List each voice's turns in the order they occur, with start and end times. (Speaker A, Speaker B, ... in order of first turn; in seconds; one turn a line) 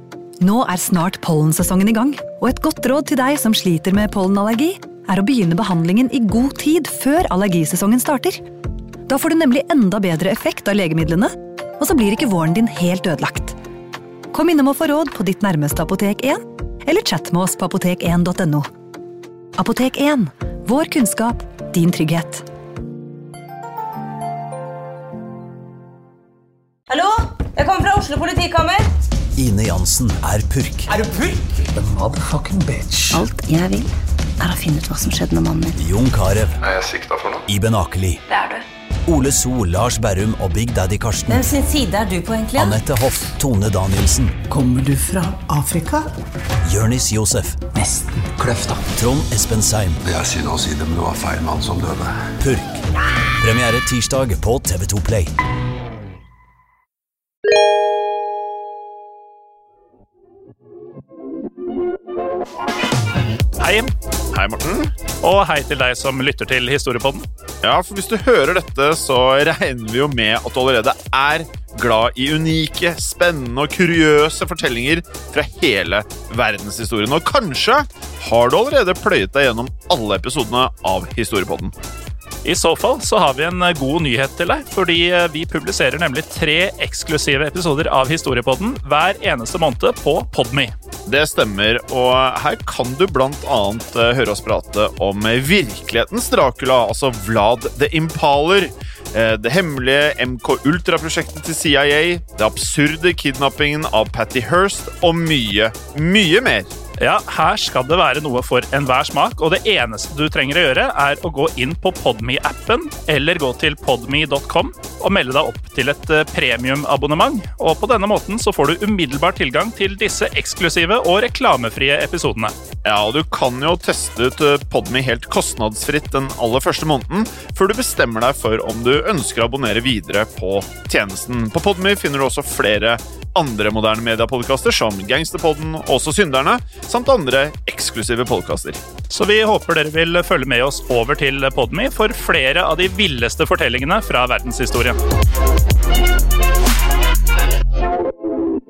Speaker A: 0.4-8.4
Speaker A: 9.1-13.6
Speaker A: 14.3-18.7
Speaker A: 19.6-22.4
Speaker B: 26.9-28.8
Speaker C: 29.4-30.9
Speaker D: 31.0-33.2
Speaker E: 33.1-35.7
Speaker C: 35.8-36.6
Speaker F: 36.7-37.4
Speaker C: 37.5-38.2
Speaker C: 39.0-41.5
Speaker B: 41.3-42.8
Speaker C: 42.5-44.3
Speaker D: 44.5-46.1
Speaker C: 46.6-47.7
Speaker D: 47.8-48.8
Speaker C: 48.9-50.0
Speaker F: 50.0-52.1
Speaker C: 52.4-52.8
Speaker C: 53.4-55.3
Speaker G: 63.6-63.9
Speaker H: 64.3-64.9
Speaker G: 65.2-67.2
Speaker H: 67.6-81.7
Speaker G: 82.4-90.7
Speaker H: 91.1-106.7
Speaker G: 107.0-122.5
Speaker H: 122.8-138.8
Speaker G: 139.1-145.0